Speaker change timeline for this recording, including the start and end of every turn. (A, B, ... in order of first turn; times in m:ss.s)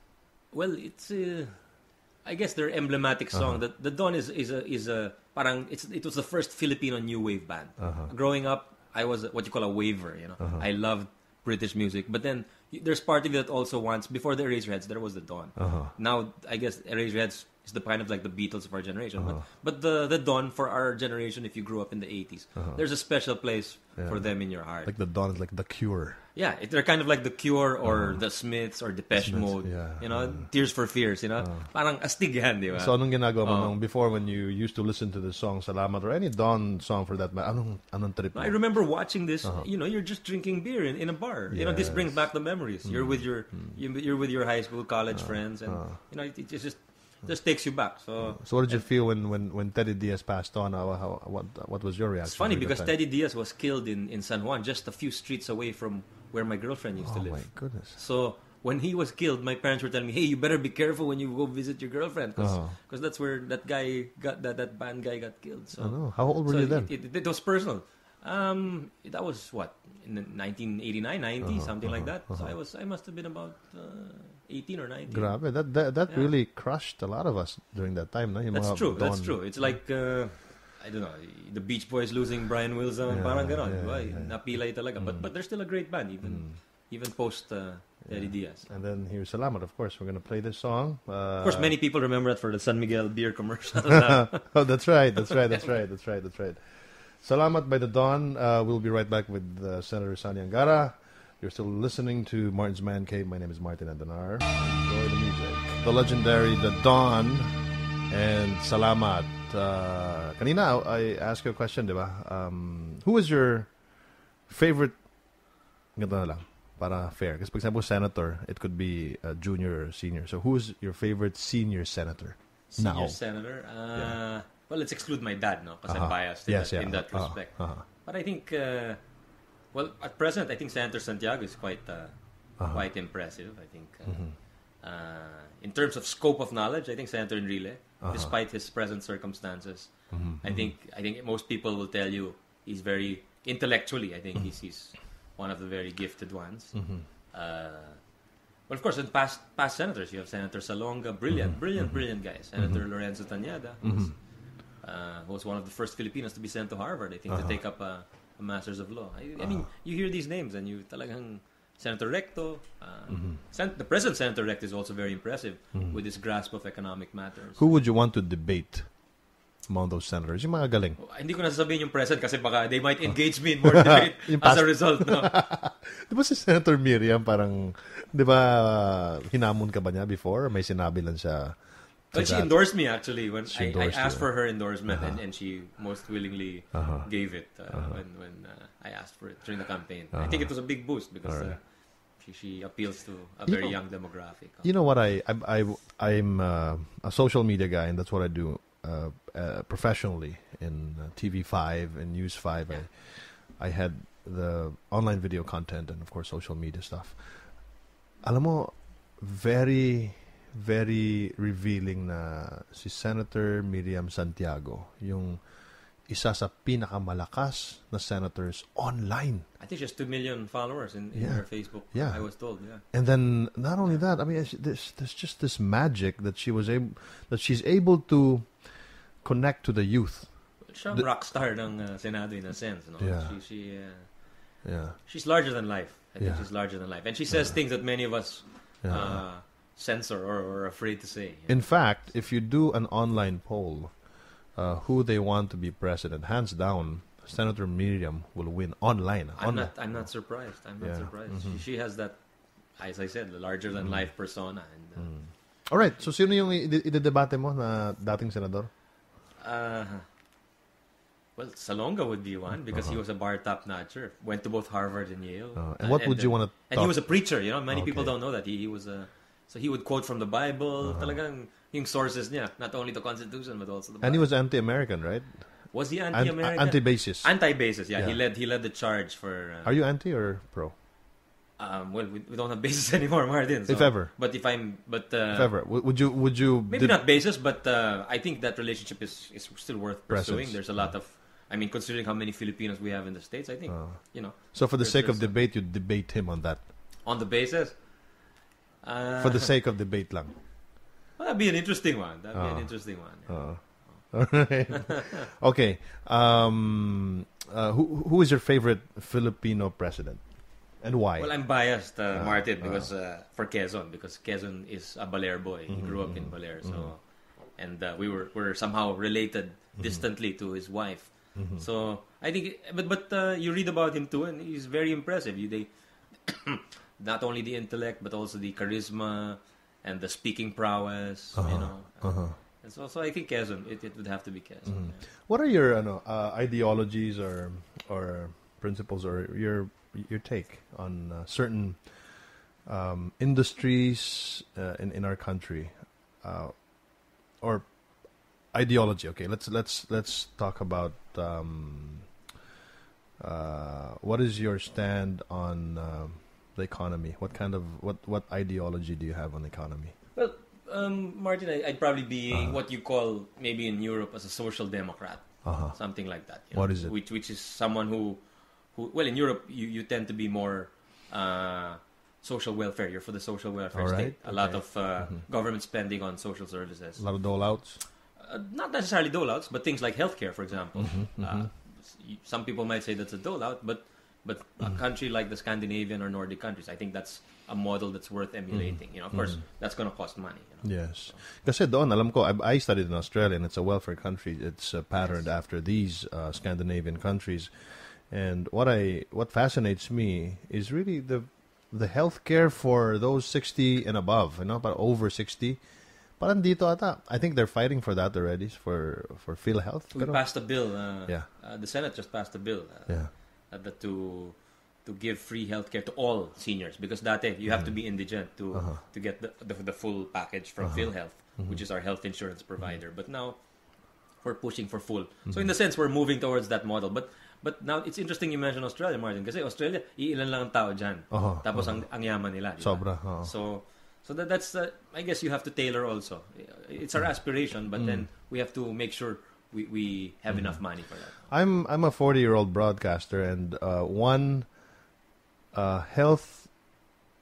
0:00.5-0:24.9 A
0:07.8-0:08.1 B
0:15.6-0:15.9 B
0:19.2-0:19.4 B
0:22.6-0:22.8 B
0:24.0-0:26.2 B
0:26.4-0:33.7 A
0:27.8-0:28.3 B
0:29.1-0:30.8 B
0:31.4-0:31.7 B
0:32.7-0:39.7 B
0:38.3-0:48.8 A
0:41.5-0:43.8 B
0:45.1-0:46.0 B
0:48.2-0:52.9 B
0:52.2-1:16.3 A
0:57.0-0:58.0 B
1:02.4-1:02.8 B
1:05.8-1:06.9 B
1:11.4-1:12.5 B
1:15.1-1:19.8 B
1:18.5-1:28.7 A
1:23.1-1:25.3 B
1:26.2-1:26.6 B
1:28.0-1:31.7 B
1:31.4-1:34.6 A
1:34.2-2:04.2 B
2:02.7-2:09.2 A
2:05.9-2:07.8 B
2:09.7-2:47.6 A
2:12.6-2:12.8 B
2:14.1-2:14.4 B
2:18.0-2:18.3 B
2:20.1-2:20.7 B
2:26.8-2:27.0 B
2:31.3-2:34.1 B
2:37.3-2:37.6 B
2:43.1-2:43.4 B
2:47.6-2:51.0 B
2:51.0-2:55.3 A
2:53.6-3:05.2 B
3:02.1-3:14.7 A
3:06.7-3:08.0 B
3:10.1-3:11.6 B
3:13.4-3:39.5 B
3:39.6-3:42.9 A
3:41.2-3:51.1 B
3:50.6-4:01.6 A
3:53.0-3:53.4 B
3:54.6-3:55.0 B
3:56.2-3:58.0 B
3:58.8-3:59.3 B
4:01.5-4:11.6 B
4:09.4-4:15.7 A
4:13.8-4:14.2 B
4:15.0-4:18.7 B
4:19.4-4:20.0 A
4:21.4-4:34.3 A
4:22.7-4:23.0 B
4:25.6-4:28.2 B
4:30.8-4:31.2 B
4:34.0-4:38.2 B
4:35.7-4:39.8 A
4:39.6-4:40.8 B
4:41.6-4:46.0 A
4:43.7-4:44.1 B
4:45.3-4:47.0 B
4:46.7-4:55.4 A
4:50.1-4:51.0 B
4:53.7-4:56.7 B
4:57.0-4:58.2 A
4:58.8-4:59.6 A
4:59.2-5:00.4 B
5:01.2-5:04.8 A
5:02.3-5:12.9 B
5:11.2-5:35.0 A
5:15.7-5:17.0 B
5:19.8-5:20.0 B
5:21.4-5:21.6 B
5:31.4-5:32.4 B
5:34.7-5:52.2 B
5:53.2-6:00.0 B
6:00.2-6:17.4 A
6:02.3-6:02.6 B
6:05.4-6:06.9 B
6:13.7-6:15.2 B
6:17.0-6:17.8 B
6:18.2-6:31.2 A
6:20.9-6:21.5 B
6:28.5-6:29.4 B
6:30.6-6:51.3 B
6:35.0-6:35.3 A
6:49.9-7:21.2 A
6:57.5-6:58.8 B
7:00.6-7:01.6 B
7:05.3-7:05.6 B
7:11.1-7:13.3 B
7:17.7-7:18.1 B
7:20.3-7:24.7 B
7:25.5-7:26.8 B